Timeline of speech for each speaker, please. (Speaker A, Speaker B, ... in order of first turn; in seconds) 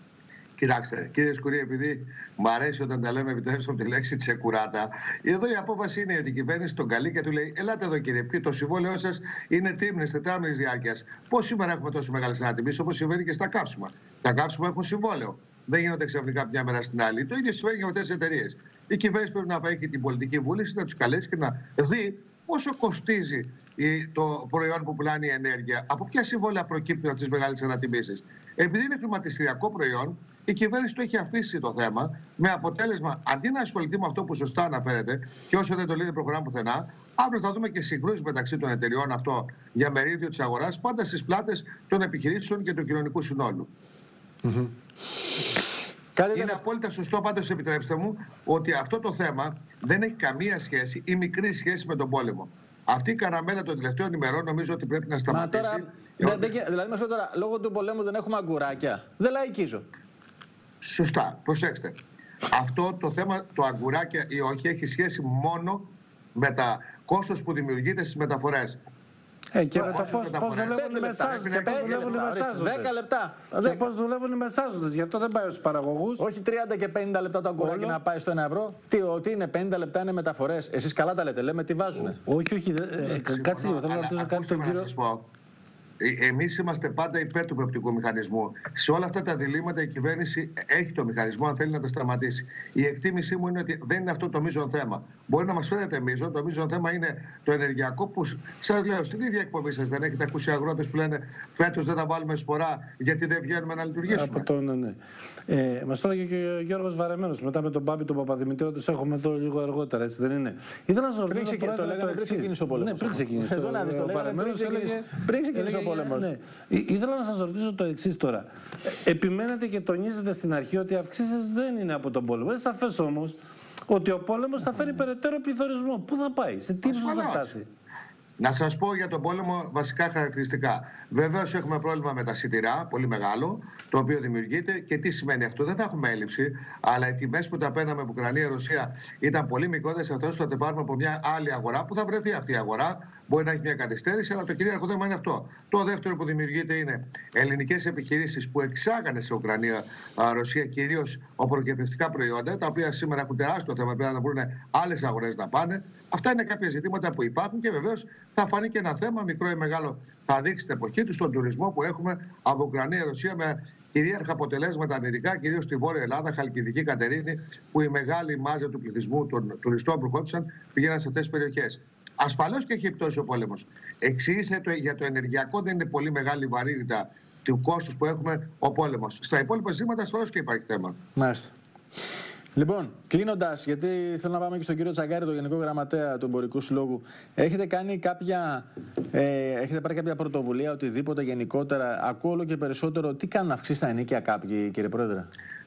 Speaker A: 0.6-43.7, 46.3-56.5, 60.8-62.0, 62.5-68.8, 69.7-72.2, 83.0-85.2, 86.0-104.5, 126.8-127.5, 128.4-180.9
Speaker B: 44.4-44.7, 46.1-46.6, 55.3-59.8, 69.7-73.9, 76.2-82.2, 111.3-116.3, 181.2-181.5, 182.6-195.3
Speaker C: 69.5-72.9, 73.6-76.2, 77.6-78.0, 82.2-84.9, 104.1-118.5, 119.0-123.3, 123.9-127.7